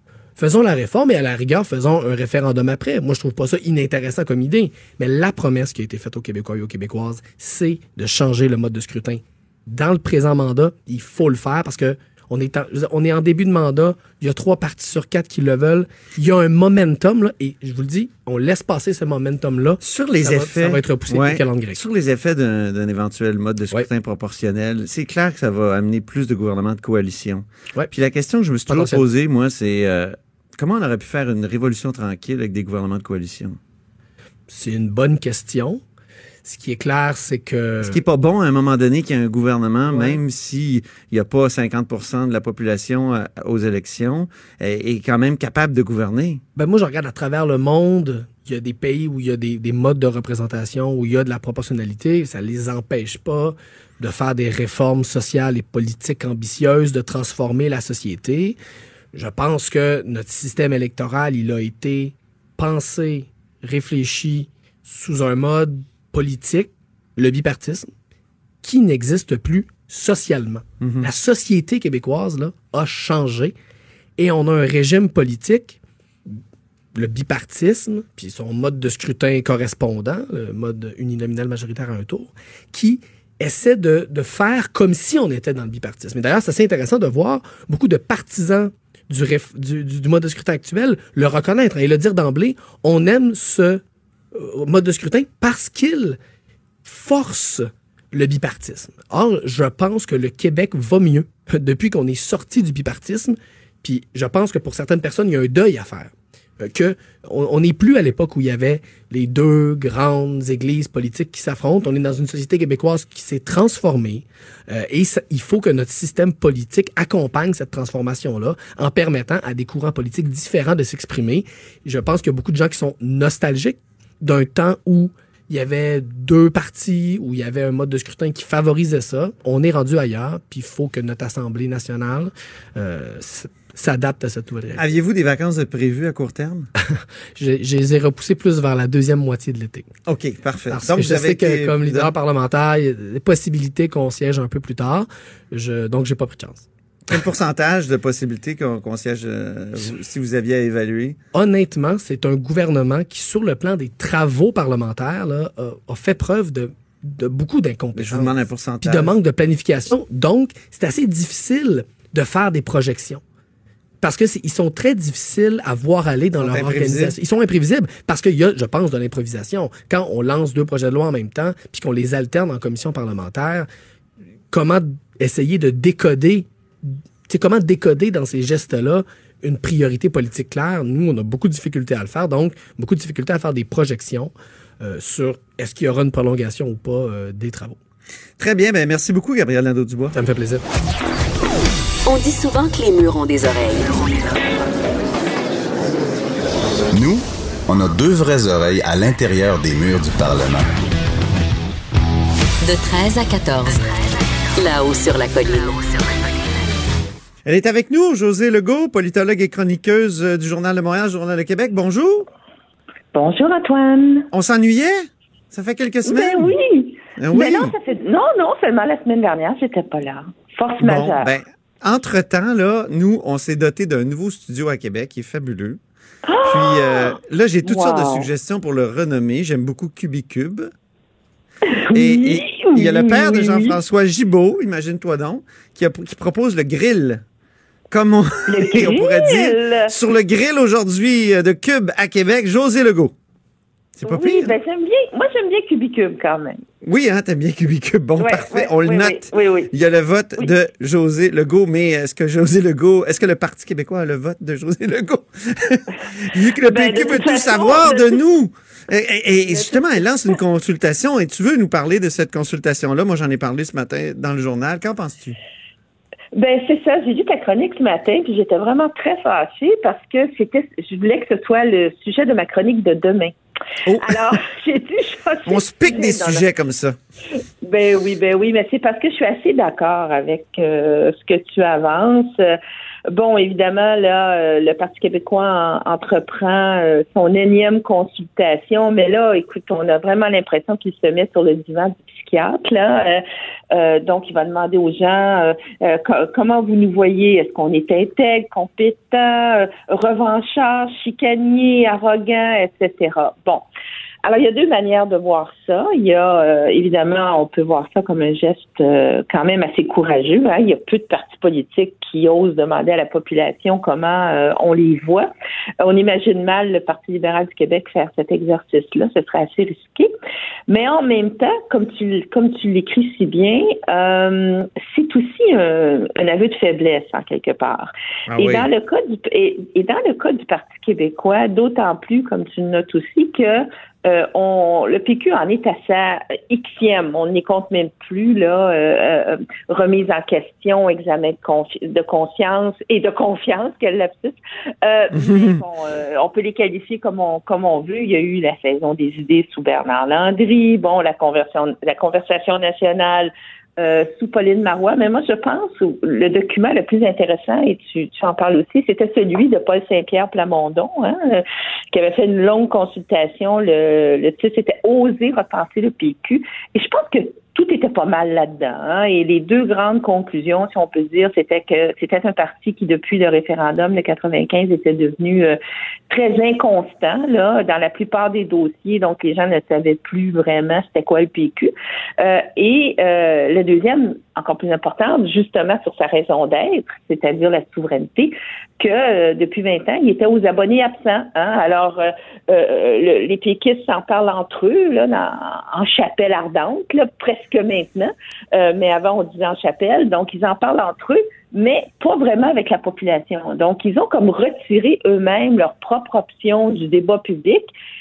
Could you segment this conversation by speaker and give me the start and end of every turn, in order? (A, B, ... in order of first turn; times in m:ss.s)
0:00.4-0:21.8 A
0:19.8-0:33.6 B
0:28.7-0:29.0 A
0:34.5-0:35.8 A
0:36.4-0:38.0 A
0:37.8-0:46.4 B
0:39.9-0:40.2 A
0:46.6-0:58.6 A
0:59.1-1:07.9 A
1:08.6-1:13.5 A
1:10.8-1:11.1 B
1:14.2-1:15.8 A
1:16.9-1:33.8 A
1:34.3-1:36.2 A
1:36.8-2:14.8 A
2:14.8-2:16.7 B
2:17.4-2:19.8 A
2:20.1-2:22.1 B
2:20.7-2:26.6 A
2:27.1-2:31.2 B
2:31.3-2:43.2 A
2:38.0-2:39.1 B
2:44.0-2:53.7 A
2:46.4-2:47.1 B
2:54.5-3:07.8 A
3:08.4-3:10.1 B
3:10.1-3:10.6 A
3:12.1-3:14.1 C
3:16.9-3:20.7 D
3:22.6-3:23.8 C
3:24.6-3:26.0 C
3:27.4-3:32.3 B
3:33.1-3:34.3 E
3:34.3-3:36.5 B
3:36.0-3:41.3 E
3:37.2-3:37.7 B
3:40.8-3:45.8 B
3:46.2-3:48.3 E
3:46.4-3:50.7 B
3:51.8-3:53.8 E
3:51.9-3:57.2 B
3:57.9-4:03.1 B
3:58.5-3:59.9 E
4:04.0-4:04.6 B
4:04.0-4:06.6 E
4:06.8-4:25.4 B
4:08.2-4:09.7 E
4:16.6-4:18.2 E
4:19.5-4:19.8 E
4:26.3-4:33.3 E
4:33.9-4:34.4 B
4:34.0-4:36.4 E
4:35.5-4:37.0 B
4:37.6-4:42.6 E
4:43.1-5:03.6 E
5:04.2-5:15.3 E
5:15.8-5:20.1 E
5:20.7-6:15.6 E
5:28.3-5:28.7 B
5:45.2-5:45.6 B
6:16.1-6:47.7 E